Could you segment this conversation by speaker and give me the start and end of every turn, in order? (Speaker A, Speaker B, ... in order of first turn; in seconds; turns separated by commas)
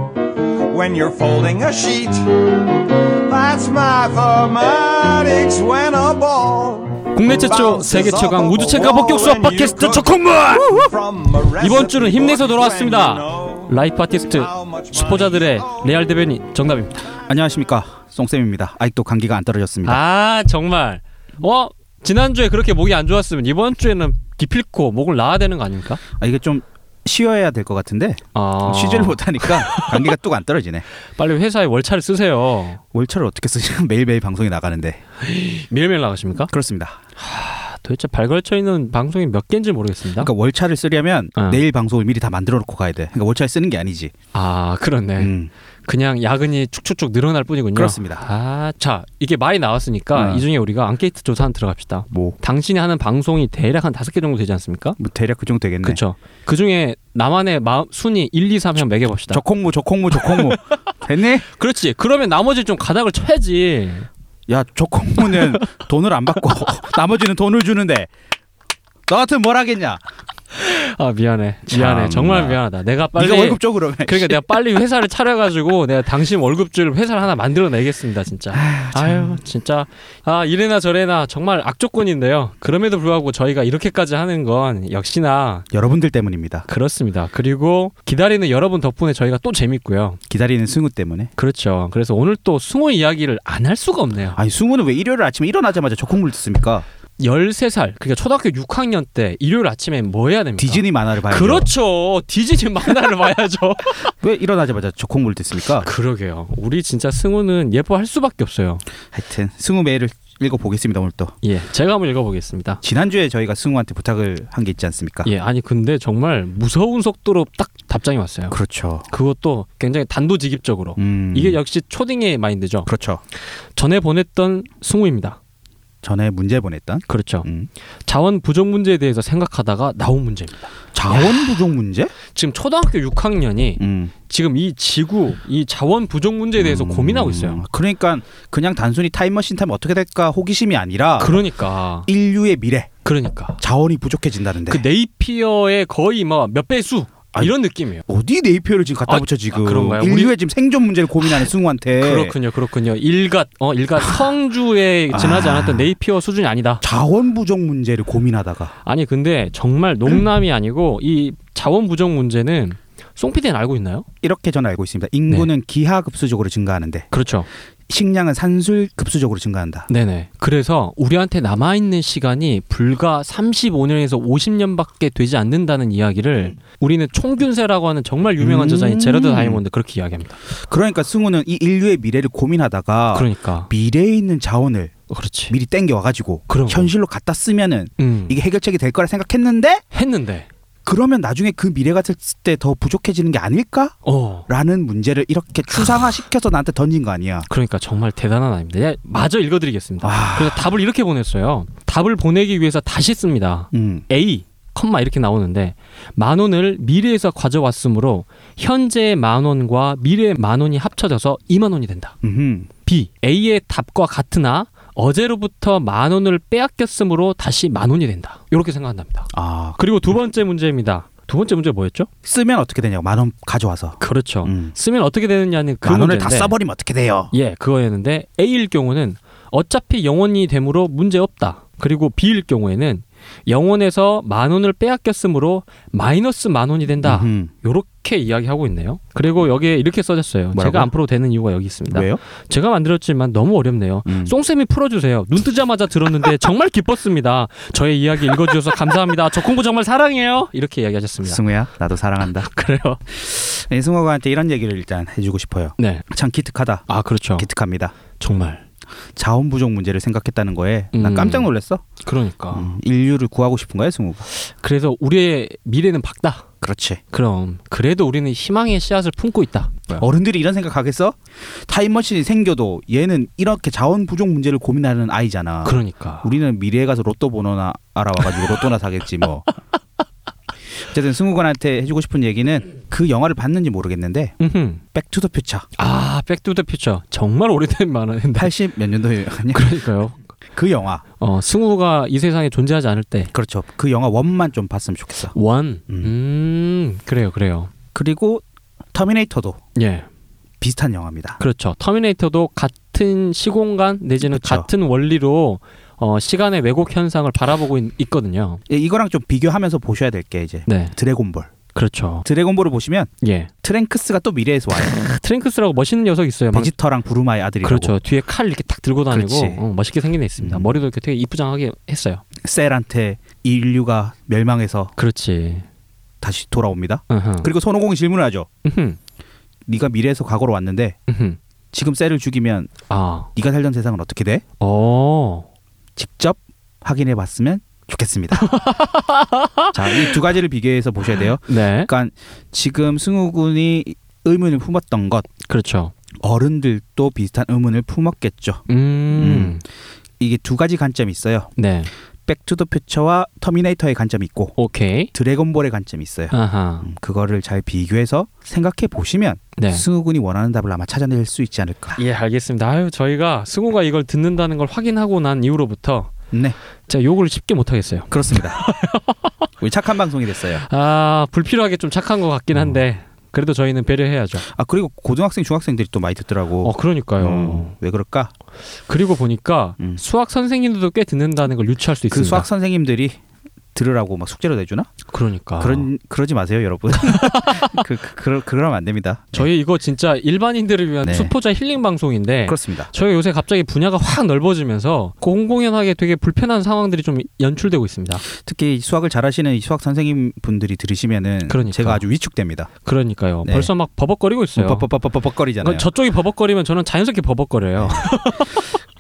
Speaker A: 0.4-13.7, Speaker B: 7.1-10.9, Speaker B: 11.6-17.0, Speaker A: 14.3-16.1, Speaker C: 17.2-20.0, Speaker B: 19.9-26.0, Speaker C: 26.2-30.9, Speaker B: 28.3-30.1, Speaker B: 31.2-32.8, Speaker C: 32.9-35.0, Speaker B: 35.2-36.5, Speaker C: 36.5-37.0, Speaker B: 37.2-40.3, Speaker C: 40.2-44.1, Speaker B: 41.4-41.6, Speaker B: 44.3-45.3, Speaker C: 45.2-45.5, Speaker B: 45.9-55.0, Speaker C: 47.7-48.2, Speaker C: 50.1-50.5, Speaker C: 52.1-52.4, Speaker C: 55.0-56.0, Speaker B: 55.8-59.4, Speaker C: 59.3-61.5, Speaker B: 60.1-60.8, Speaker B: 61.5-64.1, Speaker C: 64.5-68.1, Speaker B: 65.2-65.6, Speaker C: 69.1-70.0, Speaker B: 70.5-85.7, Speaker C: 71.7-72.6, Speaker C: 73.2-74.4, Speaker C: 78.5-79.4, Speaker C: 85.7-86.7, Speaker B: 86.7-90.2, Speaker C: 90.3-91.3, Speaker B: 91.4-94.4, Speaker C: 94.4-96.8, Speaker B: 97.2-104.1, Speaker C: 100.6-101.7, Speaker C: 104.2-105.9, Speaker B: 105.8-108.8, Speaker C: 109.1-111.3, Speaker B: 111.4-112.8, Speaker C: 112.8-115.3, Speaker B: 115.2-118.6, Speaker C: 118.5-119.1, Speaker B: 119.1-122.9, Speaker C: 121.0-121.6, Speaker C: 122.9-123.2, Speaker B: 123.8-125.4, Speaker C: 126.0-127.7, Speaker B: 127.1-127.5, Speaker B: 128.1-131.4, Speaker C: 130.9-132.1, Speaker B: 132.3-137.7, Speaker C: 133.8-134.1, Speaker C: 136.6-141.4, Speaker B: 141.2-142.1, Speaker C: 142.1-143.0, Speaker B: 143.1-143.6, Speaker C: 143.6-144.8, Speaker B: 144.7-148.1, Speaker C: 148.1-152.3, Speaker B: 149.1-150.3, Speaker B: 151.2-156.8, Speaker C: 155.1-155.9, Speaker C: 156.8-158.7, Speaker B: 158.8-164.1, Speaker C: 164.2-167.1, Speaker B: 167.1-167.5, Speaker C: 167.9-169.9, Speaker B: 169.9-180.4, Speaker C: 178.4-179.6, Speaker C: 180.6-184.9, Speaker B: 183.1-183.7, Speaker B: 185.1-185.6, Speaker C: 185.5-189.8, Speaker B: 186.5-186.9, Speaker B: 188.0-188.4, Speaker B: 189.9-190.5, Speaker C: 190.8-197.5, Speaker B: 194.1-194.5, Speaker B: 197.5-212.2, Speaker C: 200.0-200.7, Speaker C: 203.7-204.1, Speaker C: 212.2-212.7, Speaker B: 212.8-222.1, Speaker C: 219.3-219.8, Speaker C: 222.2-224.8, Speaker B: 224.0-226.5, Speaker C: 225.8-227.3, Speaker B: 227.3-251.4, Speaker C: 237.0-237.5, Speaker C: 240.5-240.9, Speaker C: 241.9-242.2, Speaker C: 244.1-244.3, Speaker C: 251.2-252.5, Speaker B: 252.4-253.0, Speaker C: 253.1-257.9, Speaker B: 255.8-256.0, Speaker B: 256.9-257.5, Speaker B: 258.2-258.6, Speaker C: 259.2-261.8, Speaker B: 260.9-261.5, Speaker B: 262.0-262.7, Speaker C: 262.5-264.3, Speaker B: 264.4-266.4, Speaker C: 266.6-267.0, Speaker B: 267.1-270.1, Speaker C: 270.0-279.4, Speaker B: 275.6-276.3, Speaker C: 280.8-284.4, Speaker B: 284.4-284.8, Speaker C: 284.9-285.7, Speaker B: 285.8-288.5, Speaker C: 288.4-289.8, Speaker B: 289.5-290.2, Speaker C: 290.5-291.0, Speaker B: 291.2-293.3, Speaker C: 293.3-295.4, Speaker B: 295.4-297.7, Speaker C: 297.9-299.6, Speaker B: 299.8-300.1, Speaker C: 300.6-301.4, Speaker B: 301.4-308.6, Speaker C: 304.3-304.7, Speaker C: 308.7-311.5, Speaker B: 310.7-310.9, Speaker B: 311.8-312.2, Speaker C: 312.2-313.1, Speaker B: 313.2-313.5, Speaker C: 313.6-314.9, Speaker B: 314.8-316.7, Speaker C: 316.5-317.9, Speaker B: 317.6-322.2, Speaker C: 319.1-319.6, Speaker C: 320.4-320.7, Speaker C: 322.4-324.9, Speaker B: 325.0-325.7, Speaker C: 326.2-328.5, Speaker B: 327.1-327.5, Speaker B: 328.6-329.0, Speaker C: 329.7-331.0, Speaker B: 331.1-331.4, Speaker C: 331.7-332.8, Speaker B: 332.9-333.3, Speaker C: 333.4-334.4, Speaker B: 334.6-335.5, Speaker C: 336.0-338.5, Speaker B: 338.4-340.2, Speaker C: 339.7-345.3, Speaker B: 341.5-341.9, Speaker B: 345.5-345.9, Speaker C: 346.2-349.6, Speaker B: 348.7-349.6, Speaker C: 350.2-351.5, Speaker B: 351.6-351.9, Speaker C: 352.2-354.6, Speaker B: 354.6-355.1, Speaker C: 355.1-362.0, Speaker B: 356.3-356.9, Speaker B: 359.6-359.9, Speaker B: 362.0-366.2, Speaker C: 366.3-366.6, Speaker B: 366.9-369.3, Speaker C: 368.1-368.6, Speaker C: 369.6-370.6, Speaker B: 370.6-374.4, Speaker C: 374.4-378.3, Speaker B: 376.6-377.8, Speaker B: 378.9-382.5, Speaker C: 382.1-383.2, Speaker C: 383.8-384.9, Speaker B: 385.1-385.9, Speaker C: 385.6-389.5, Speaker B: 386.9-387.9, Speaker B: 389.4-398.2, Speaker C: 391.0-391.3, Speaker C: 392.5-392.9, Speaker C: 398.3-402.7, Speaker B: 401.5-402.0, Speaker B: 402.9-404.9, Speaker C: 403.4-403.7, Speaker C: 404.6-405.9, Speaker B: 405.6-408.8, Speaker C: 407.8-408.1